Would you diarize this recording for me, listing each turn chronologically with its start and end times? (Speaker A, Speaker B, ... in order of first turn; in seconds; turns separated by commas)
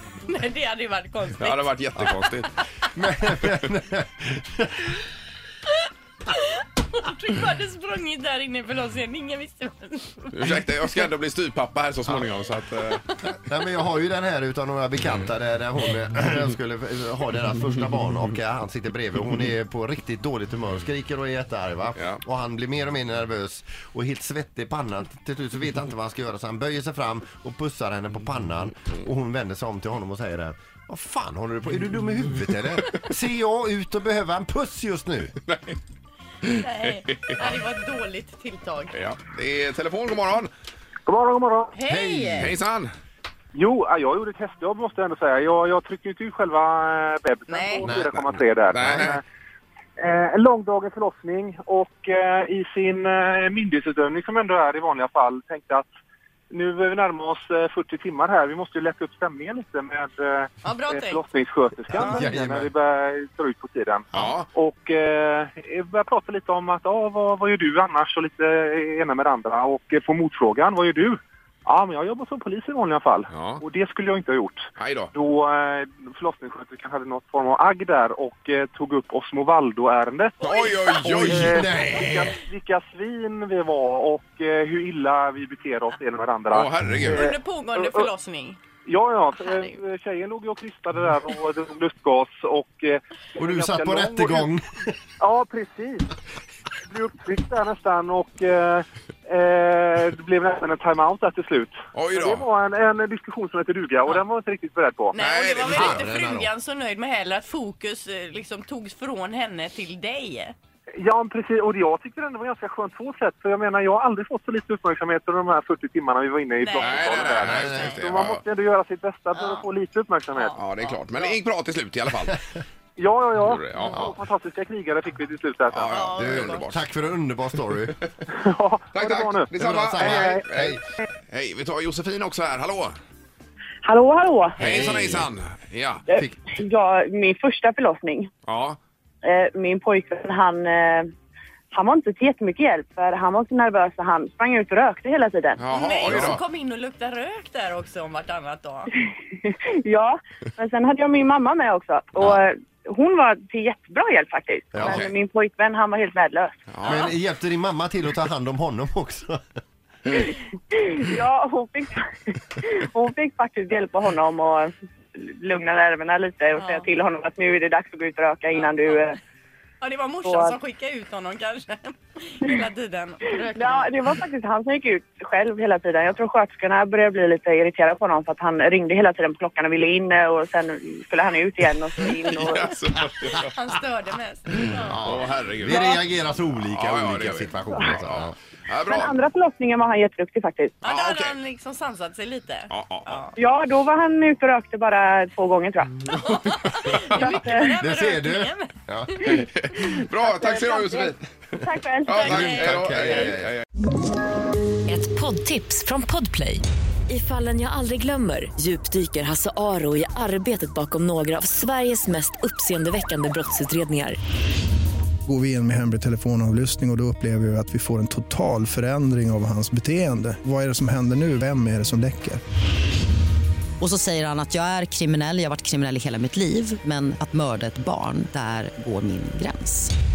Speaker A: 0.2-1.7, Speaker B: 1.4-2.5, Speaker C: 2.9-4.9, Speaker A: 6.3-11.1, Speaker B: 10.3-13.0, Speaker C: 13.4-35.3, Speaker B: 35.4-35.8, Speaker B: 36.4-37.5, Speaker A: 36.6-38.9, Speaker B: 38.9-40.5, Speaker D: 41.0-41.8, Speaker A: 41.7-42.5, Speaker C: 41.9-42.5, Speaker B: 42.4-42.9, Speaker D: 43.5-49.2, Speaker A: 47.5-47.9, Speaker B: 48.1-49.2, Speaker C: 48.8-49.1, Speaker D: 50.0-55.9, Speaker D: 56.5-80.3, Speaker A: 60.6-61.2, Speaker C: 62.0-62.7, Speaker B: 64.1-64.5, Speaker B: 73.3-73.6, Speaker B: 74.8-75.1, Speaker B: 80.4-81.6, Speaker A: 80.4-81.0, Speaker D: 81.0-88.1, Speaker C: 81.0-82.3, Speaker B: 86.5-87.3, Speaker A: 87.1-88.6, Speaker D: 88.8-94.5, Speaker A: 89.3-89.8, Speaker C: 93.3-94.9, Speaker D: 95.2-96.1, Speaker D: 96.9-105.1, Speaker B: 101.9-102.4, Speaker A: 105.1-110.5, Speaker B: 105.2-106.2, Speaker C: 105.7-106.5, Speaker D: 111.0-120.5, Speaker A: 116.6-118.0, Speaker B: 116.8-118.4, Speaker A: 119.3-119.6, Speaker A: 120.3-121.3, Speaker B: 120.5-122.4, Speaker D: 123.0-126.0, Speaker B: 123.3-124.1, Speaker B: 125.7-126.9, Speaker A: 125.9-126.7, Speaker C: 126.2-127.9, Speaker D: 128.3-130.4, Speaker B: 128.9-132.9, Speaker C: 129.5-130.8, Speaker E: 133.8-134.9, Speaker C: 134.6-135.2, Speaker B: 134.6-136.2, Speaker E: 136.1-138.3, Speaker B: 138.4-138.8, Speaker E: 139.2-141.1, Speaker E: 141.7-145.6, Speaker B: 145.6-146.4, Speaker A: 145.7-148.9, Speaker C: 146.1-146.3, Speaker E: 149.4-156.5, Speaker C: 154.7-155.0, Speaker B: 154.8-155.1, Speaker B: 156.7-157.1, Speaker C: 156.8-159.4, Speaker E: 160.1-169.2, Speaker A: 166.6-166.9, Speaker A: 168.7-168.9, Speaker A: 169.8-173.9, Speaker E: 170.2-170.5, Speaker E: 173.5-182.7, Speaker B: 182.0-183.5, Speaker A: 183.4-185.1, Speaker C: 184.7-188.3, Speaker B: 185.0-186.0, Speaker A: 185.7-186.0, Speaker B: 186.6-189.2, Speaker E: 188.9-190.8, Speaker A: 190.8-193.3, Speaker B: 190.8-191.3, Speaker B: 192.7-193.2, Speaker E: 193.4-195.9, Speaker A: 196.1-199.4, Speaker B: 196.9-197.2, Speaker E: 197.1-197.7, Speaker C: 197.8-199.4, Speaker B: 199.2-201.2, Speaker E: 199.8-202.5, Speaker B: 202.0-203.6, Speaker A: 202.1-203.2, Speaker C: 202.2-203.6, Speaker F: 204.9-214.2, Speaker G: 215.2-222.4, Speaker H: 223.8-229.9